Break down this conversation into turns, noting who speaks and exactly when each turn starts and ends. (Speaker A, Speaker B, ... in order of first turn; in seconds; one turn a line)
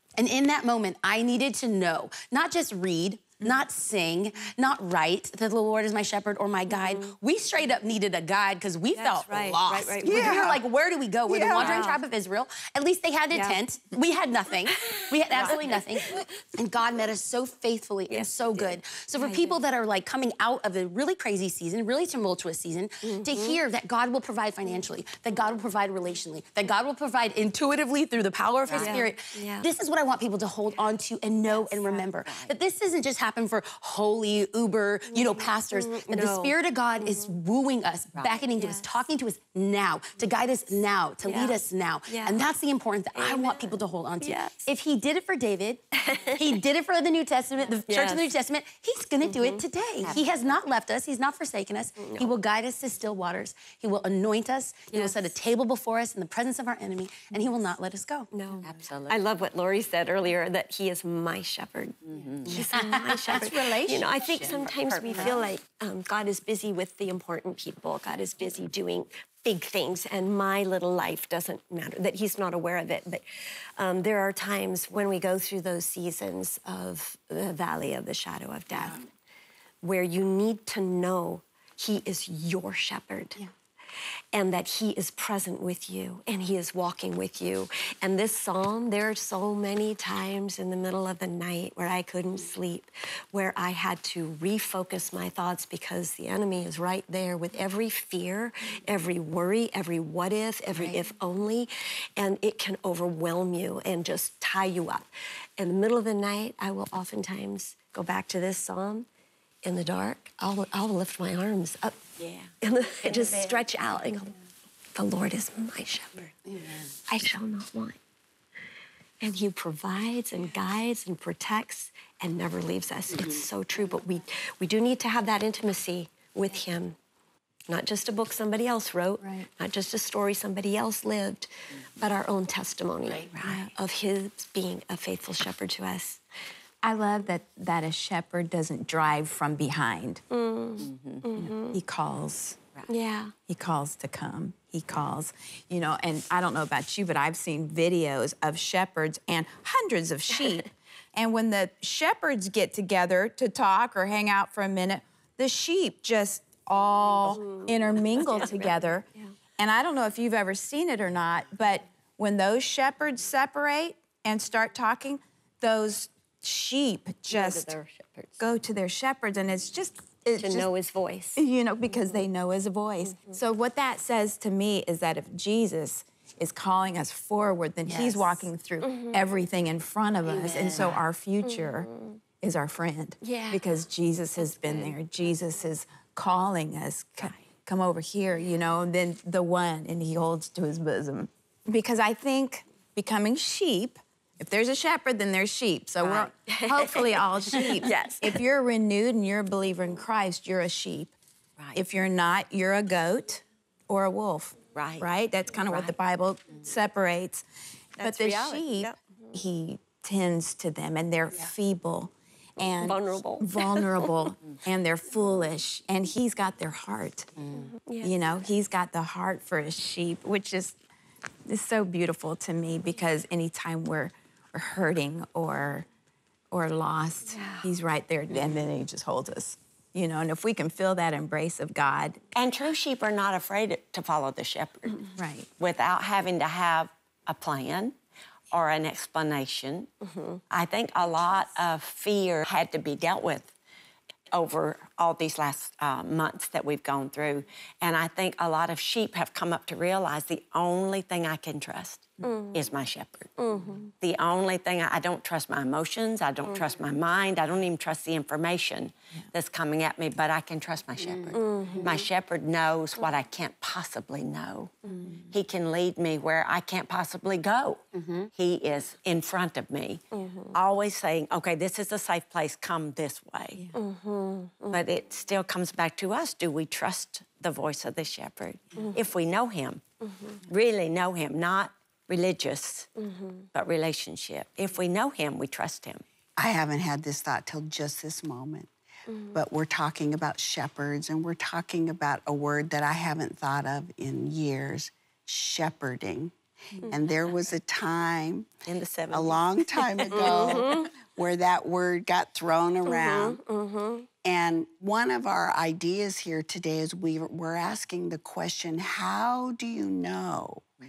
Speaker A: 0.1-58.3
Speaker B: 6.7-7.1
Speaker B: 8.9-10.4
Speaker C: 9.7-10.6
Speaker C: 11.3-11.9
Speaker B: 11.5-12.0
Speaker B: 13.3-13.6
Speaker B: 14.7-16.3
Speaker D: 15.3-15.6
Speaker B: 18.1-19.6
Speaker B: 23.0-23.6
Speaker D: 28.6-29.0
Speaker B: 28.7-29.7
Speaker B: 31.5-31.9
Speaker D: 31.8-32.5
Speaker B: 35.1-37.3
Speaker D: 38.1-38.4
Speaker B: 38.5-39.0
Speaker B: 41.2-42.5
Speaker B: 43.1-44.7
Speaker B: 46.0-46.6
Speaker B: 47.9-48.3
Speaker B: 49.2-49.6
Speaker D: 50.0-50.3
Speaker B: 52.0-52.3
Speaker B: 54.9-55.2
Speaker B: 58.3-73.2
Speaker D: 58.6-59.2
Speaker D: 62.0-62.6
Speaker A: 62.5-63.5
Speaker E: 63.7-65.2
Speaker D: 64.4-65.4
Speaker B: 73.8-79.1
Speaker B: 79.8-83.4
Speaker B: 84.3-109.0
Speaker B: 109.6-112.0
Speaker D: 112.2-113.7
Speaker B: 112.6-114.3
Speaker B: 114.9-116.3
Speaker B: 117.1-118.0
Speaker B: 119.2-127.0
Speaker B: 127.7-136.2
Speaker E: 129.2-129.5
Speaker D: 133.2-133.7
Speaker E: 133.4-133.7
Speaker E: 136.8-140.2
Speaker B: 140.3-141.8
Speaker D: 140.8-141.3
Speaker E: 141.4-142.6
Speaker B: 142.9-143.3
Speaker E: 143.5-159.1
Speaker B: 157.3-159.3
Speaker E: 159.6-167.7
Speaker B: 167.3-168.4
Speaker E: 168.4-170.7
Speaker B: 170.4-171.4
Speaker E: 171.3-201.1
Speaker A: 177.8-178.5
Speaker B: 178.8-179.2
Speaker A: 180.3-181.0
Speaker B: 181.5-181.9
Speaker B: 183.2-183.6
Speaker D: 187.2-187.4
Speaker D: 196.0-196.3
Speaker B: 196.4-198.4
Speaker E: 201.7-207.4
Speaker D: 204.7-205.1
Speaker D: 205.7-205.9
Speaker B: 208.0-209.0
Speaker E: 208.0-217.3
Speaker B: 212.8-214.1
Speaker A: 217.4-217.7
Speaker B: 217.5-218.2
Speaker E: 218.0-220.8
Speaker E: 221.4-225.8
Speaker E: 226.5-232.2
Speaker B: 227.3-227.7
Speaker D: 232.3-237.9
Speaker E: 235.1-235.5
Speaker D: 238.5-239.9
Speaker B: 240.0-240.4
Speaker D: 240.5-243.5
Speaker D: 244.3-264.7
Speaker B: 252.2-252.6
Speaker B: 253.4-253.8
Speaker A: 261.1-262.0
Speaker B: 261.3-261.9
Speaker D: 265.3-267.8
Speaker A: 267.9-268.3
Speaker D: 268.3-270.0
Speaker B: 270.1-270.5
Speaker D: 270.5-273.6
Speaker B: 273.7-274.8
Speaker D: 274.7-279.8
Speaker B: 280.0-280.4
Speaker D: 280.5-282.9
Speaker B: 283.0-283.4
Speaker D: 283.5-286.0
Speaker C: 286.4-288.7
Speaker B: 289.1-289.4
Speaker C: 289.3-296.3
Speaker C: 296.9-298.5
Speaker D: 298.7-300.8
Speaker C: 299.1-303.4
Speaker B: 300.1-300.9
Speaker B: 302.9-304.1
Speaker C: 304.2-310.6